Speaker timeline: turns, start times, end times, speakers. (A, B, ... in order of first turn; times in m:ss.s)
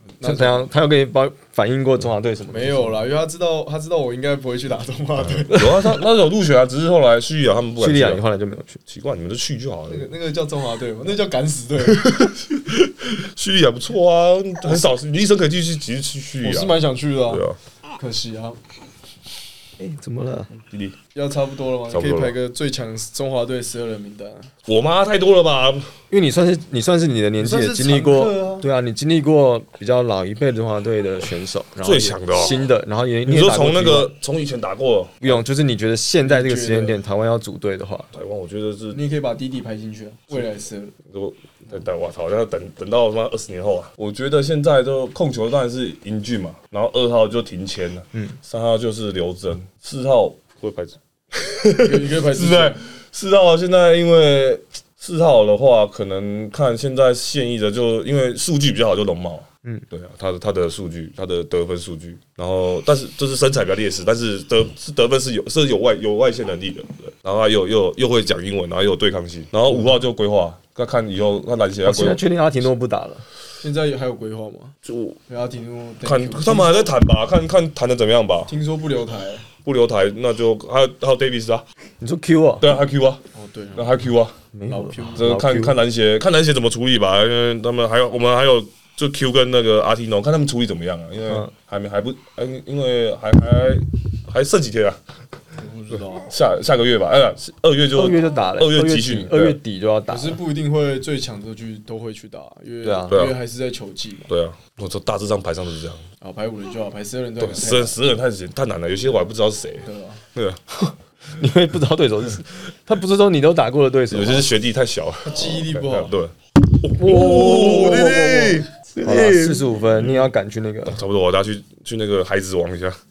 0:00.2-0:00.6 A
0:00.2-0:03.0 B
0:02.5-0:05.8 A
0:05.4-0:08.2 C
0:05.6-0:05.8 B
0:07.8-0:08.8 B
0:08.9-0:10.1 C
0:09.9-0:12.3 A
0:11.9-0:16.8 C
0:16.4-0:17.4 A
0:17.3-0:17.6 C
0:18.0-0:18.6 A
0:19.8-0:20.5 B
0:20.7-0:21.0 C
0:21.2-0:24.5 A
0:21.9-0:22.4 C
0:24.7-0:25.9 C
0:26.1-0:34.1 B
0:27.4-0:28.6 A
0:31.8-0:32.6 C
0:33.3-0:35.4 C
0:35.2-0:38.1 B
0:36.2-0:37.0 A
0:38.1-0:39.0 C
0:38.9-0:40.9 A
0:41.1-1:12.2 C
0:51.8-0:52.8 A
1:11.8-1:13.2 B
1:13.6-1:14.7 A
1:14.8-1:15.2 C
1:15.3-1:16.8 A
1:16.0-1:18.5 C
1:18.5-1:19.5 A
1:19.6-1:21.6 C
1:22.0-1:22.7 B
1:22.6-1:23.2 C
1:23.3-1:23.9 A
1:23.8-1:24.4 C
1:24.5-1:25.8 B
1:24.7-1:25.3 A
1:25.2-1:35.0 C
1:35.6-1:36.3 A
1:36.3-1:39.6 C
1:37.9-1:40.4 B
1:40.1-1:44.3 A
1:42.8-1:43.1 B
1:43.1-1:43.4 C
1:44.3-1:46.0 C
1:46.2-1:48.0 A
1:47.4-1:50.8 C
1:49.8-1:50.2 A
1:51.3-1:54.5 B
1:54.1-2:00.2 C
1:55.2-1:56.1 A
1:57.0-2:01.0 B
2:00.9-2:03.0 C